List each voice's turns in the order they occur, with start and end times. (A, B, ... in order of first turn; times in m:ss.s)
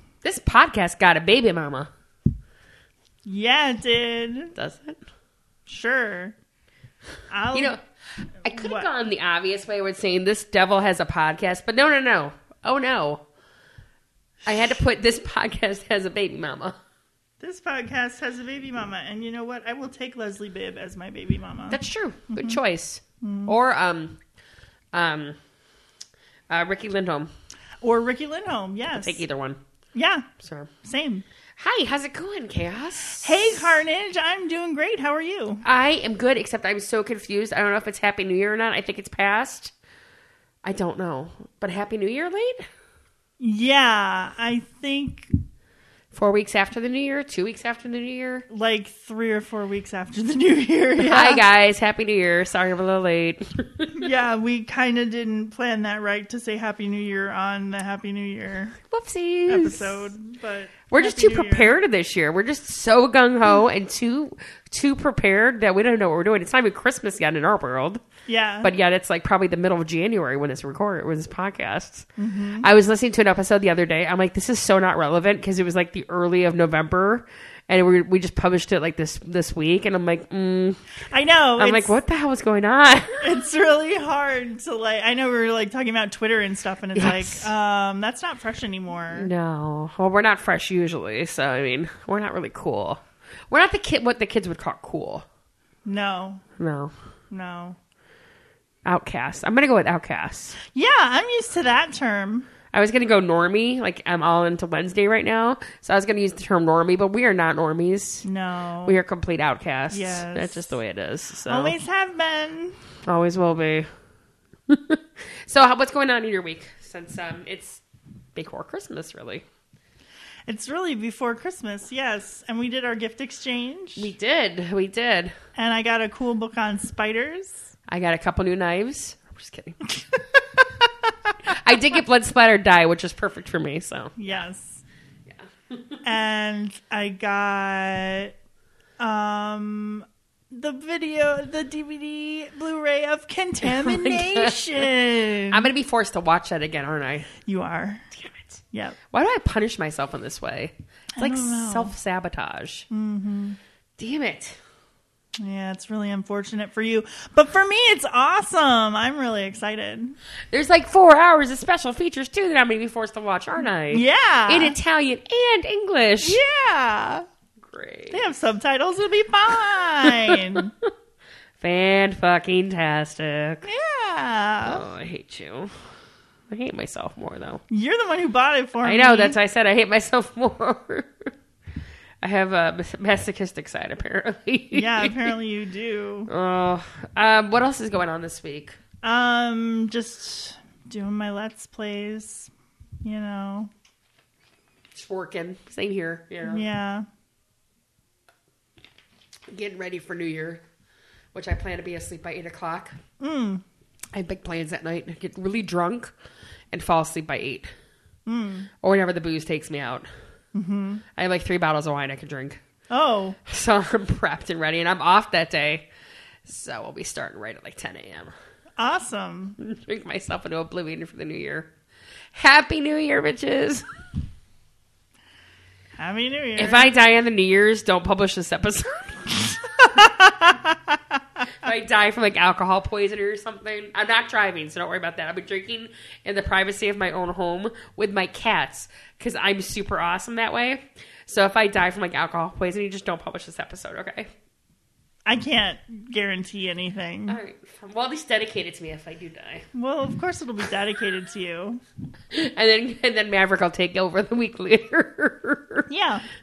0:00.2-0:01.9 A
0:03.2-0:04.6 B
0:04.6-0:05.0 A
0:05.7-0:06.4 B
0:07.3-0:07.8 B
0:07.5-0:07.8 A
0:08.4-0:13.2 A
0:08.6-0:08.9 B
0:14.4-0:16.8 A
0:17.4-0:21.8 B
0:21.7-0:24.2 A
0:23.2-0:23.5 B
0:24.9-0:25.4 A
0:26.5-0:27.3 A
0:27.8-0:29.2 B
0:28.9-0:29.6 A
0:29.9-0:30.3 B
0:30.4-0:30.7 A
0:30.8-0:31.2 B
0:31.6-0:33.7 A
0:33.2-0:35.6 B
0:35.6-0:39.7 A
0:40.6-0:42.7 A
0:43.4-0:45.3 B
0:46.1-0:48.5 A
0:48.5-0:51.4 B
0:51.0-0:54.0 A
0:54.0-0:58.8 B
0:58.9-1:00.1 A
0:59.5-1:01.8 B
1:00.9-1:08.0 A
1:08.3-1:08.7 B
1:08.6-1:12.1 A
1:12.2-1:12.7 B
1:12.6-1:20.8 A
1:21.1-1:22.0 B
1:21.6-1:23.2 A
1:23.2-1:29.3 B
1:27.0-1:27.5 A
1:29.1-1:35.2 A
1:35.8-1:36.4 B
1:36.6-1:36.9 A
1:37.3-1:37.8 B
1:38.8-1:40.6 A
1:40.6-1:42.5 B
1:42.7-1:48.3 A
1:48.2-1:49.0 B
1:48.8-1:51.8 A
1:49.9-1:50.8 B
1:51.5-1:52.8 B
1:53.0-1:53.9 A
1:54.7-1:57.8 A
1:58.4-1:59.4 A
2:00.5-2:04.1 B
2:04.0-2:05.4 A
2:05.6-2:07.7 B
2:07.9-2:09.8 A
2:11.4-2:14.3 A
2:14.2-2:14.8 B
2:15.3-2:16.0 A
2:16.0-2:18.4 B
2:19.0-2:25.7 B
2:23.6-2:24.9 A
2:25.5-2:27.3 A
2:27.4-2:28.1 B
2:28.1-2:28.6 A
2:29.1-2:32.9 A
2:31.2-2:31.9 B
2:32.9-2:33.6 B
2:34.0-2:34.6 A
2:35.4-2:40.2 B
2:40.5-2:46.4 A
2:43.9-2:44.8 B
2:46.2-2:47.2 B
2:47.6-2:48.2 A
2:48.1-2:50.7 B
2:50.0-2:50.9 A
2:51.6-2:53.7 A
2:53.6-2:54.9 B
2:54.6-2:55.7 A
2:56.5-2:57.6 A
2:57.7-2:59.4 B
2:58.8-3:01.3 A
3:02.2-3:05.3 A
3:04.7-3:06.3 B
3:06.3-3:08.8 A
3:09.0-3:12.5 B
3:13.0-3:13.7 B
3:15.0-3:16.6 A
3:16.4-3:17.1 B
3:19.5-3:20.6 A
3:21.4-3:23.0 A
3:23.2-3:23.6 B
3:24.1-3:26.1 A
3:26.7-3:27.7 A
3:28.3-3:28.7 B
3:28.8-3:30.1 A
3:30.5-3:31.0 B
3:31.2-3:32.6 A
3:32.9-3:33.4 B
3:33.5-3:35.9 A
3:36.5-3:38.3 A
3:38.8-3:39.6 B
3:39.6-3:41.7 A
3:42.4-3:43.8 A
3:46.0-3:46.9 B
3:46.6-3:49.6 A
3:49.8-3:51.0 B
3:51.5-4:04.3 A
4:05.3-4:07.4 B
4:07.3-4:09.6 A
4:09.7-4:11.8 B
4:12.3-4:15.9 A
4:15.9-4:16.2 B